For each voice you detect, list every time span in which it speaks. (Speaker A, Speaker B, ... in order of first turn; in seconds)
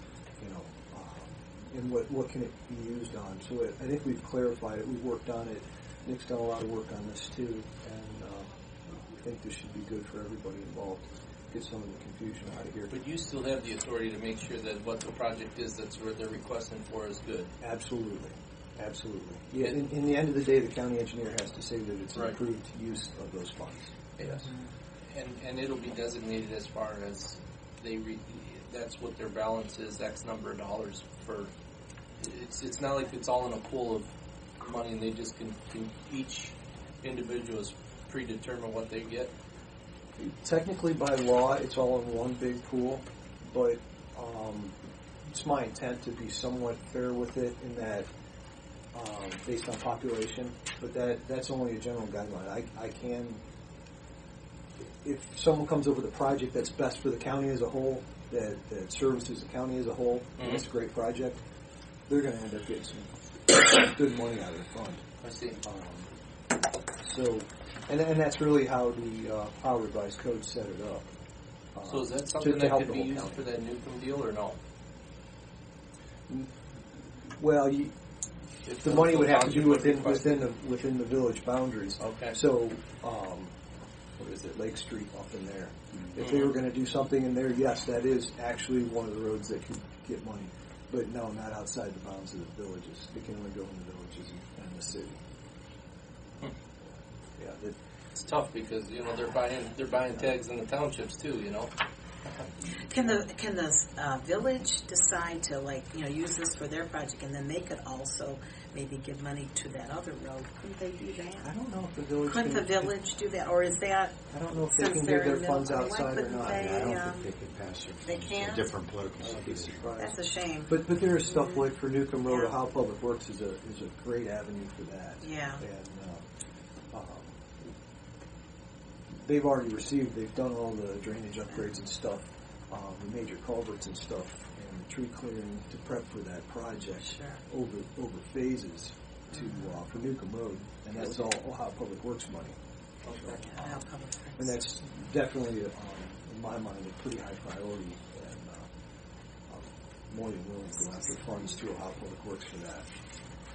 Speaker A: 0.4-12.9, 17.6-23.9, 40.2-44.8, 45.3-48.1, 48.9-53.4, 55.0-61.4, 62.1-65.0, 65.6-66.1, 67.0-71.1, 71.8-73.4, 76.3-77.9, 78.8-83.5, 84.2-95.2, 96.9-97.8, 111.4-112.9, 114.3-117.0, 119.2-126.2, 126.9-127.7, 129.1-142.6, 143.4-143.7, 144.4-148.7, 149.5-152.9
Speaker B: 12.9-17.5, 24.2-24.5, 25.1-31.5, 32.2-34.1, 34.6-39.3, 60.4-60.6, 65.2-65.6, 71.8-74.6, 78.7-80.5, 82.0-82.4, 86.2-86.5, 98.2-101.7, 143.0-143.7
Speaker C: 102.9-111.5, 112.2-114.2, 114.7-117.3, 118.0-118.7, 120.0-121.6, 122.3-122.5, 125.2-125.6, 137.0-137.4, 139.3-139.7, 143.5-144.5
Speaker D: 116.6-119.9